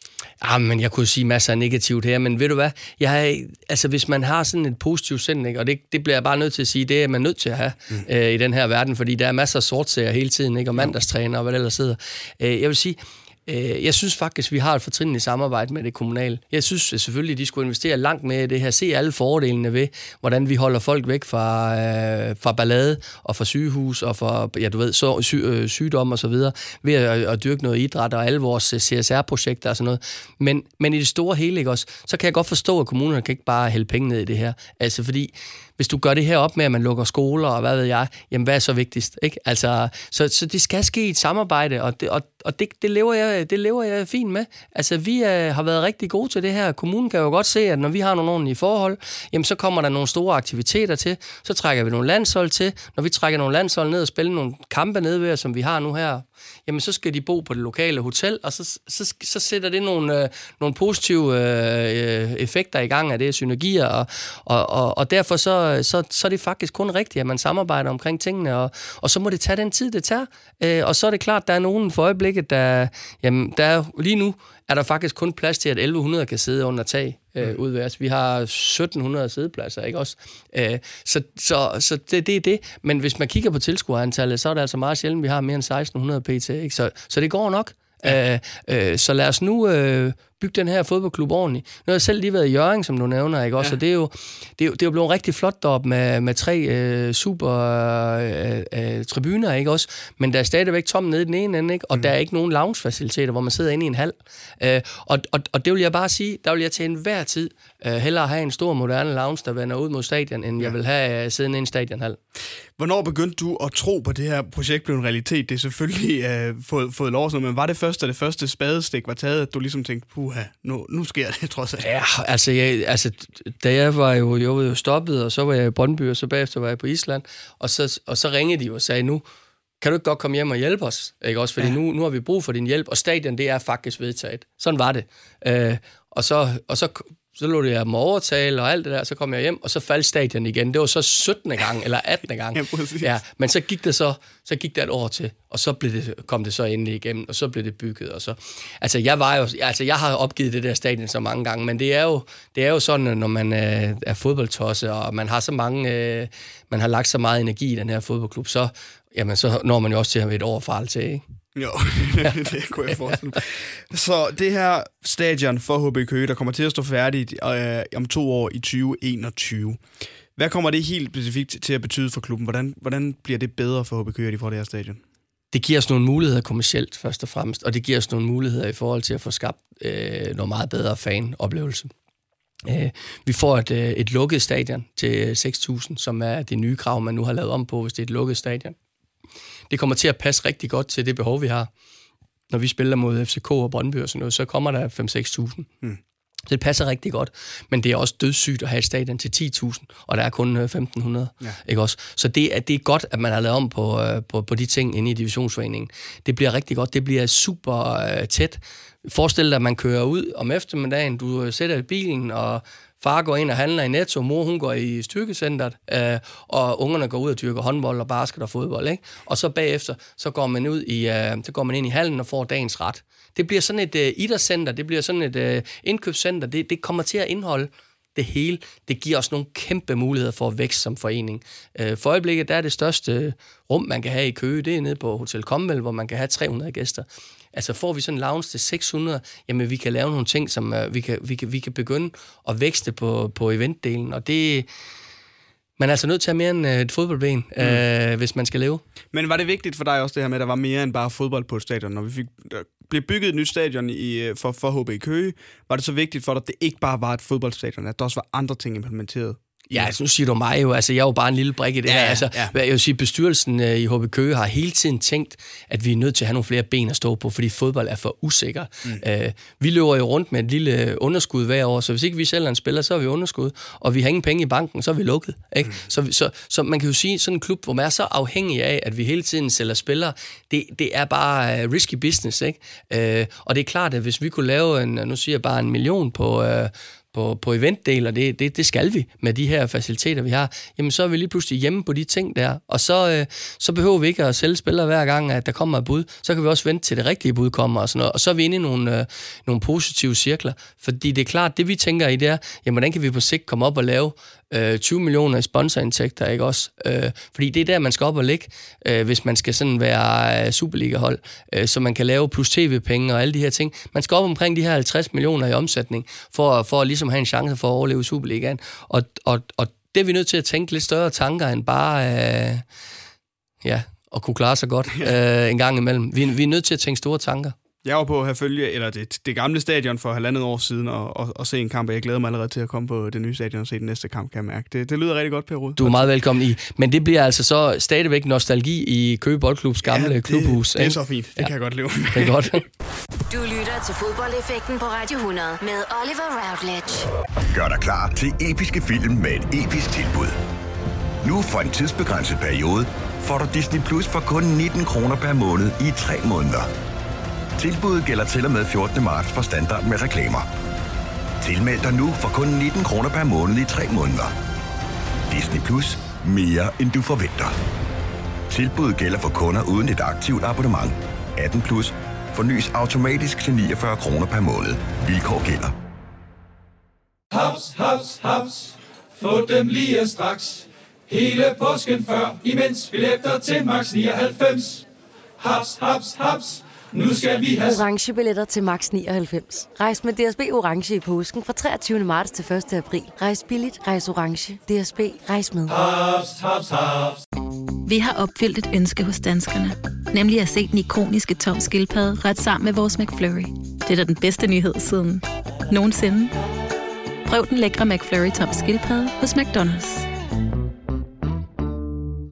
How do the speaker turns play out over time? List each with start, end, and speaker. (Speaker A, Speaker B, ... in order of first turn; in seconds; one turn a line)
Speaker A: 0.4-112.2
Speaker B: 112.8-121.9
Speaker A: 121.8-129.2
Speaker A: 129.8-161.2
Speaker B: 142.5-143.1
Speaker B: 161.6-169.8
Speaker B: 170.4-175.0
Speaker A: 175.5-181.9
Speaker A: 182.7-188.8
Speaker A: 189.7-191.7
Speaker A: 192.5-195.7
Speaker A: 196.5-244.7
Speaker A: 245.8-248.8
Speaker B: 249.1-259.9
Speaker A: 259.7-322.6
Speaker B: 261.9-262.5
Speaker A: 323.6-327.6
Speaker B: 327.8-336.1
Speaker A: 335.8-341.5
Speaker B: 339.8-342.6
Speaker A: 342.1-342.7
Speaker C: 343.3-347.1
Speaker D: 347.5-350.4
Speaker D: 351.2-356.7
Speaker D: 357.6-360.5
Speaker D: 361.4-364.3
Speaker D: 365.3-367.6
Speaker D: 368.5-375.8
Speaker E: 377.3-384.9
Speaker E: 385.4-387.8
Speaker F: 387.6-395.8
Speaker E: 395.7-397.2
Speaker G: 397.9-406.3
Speaker G: 407.3-410.1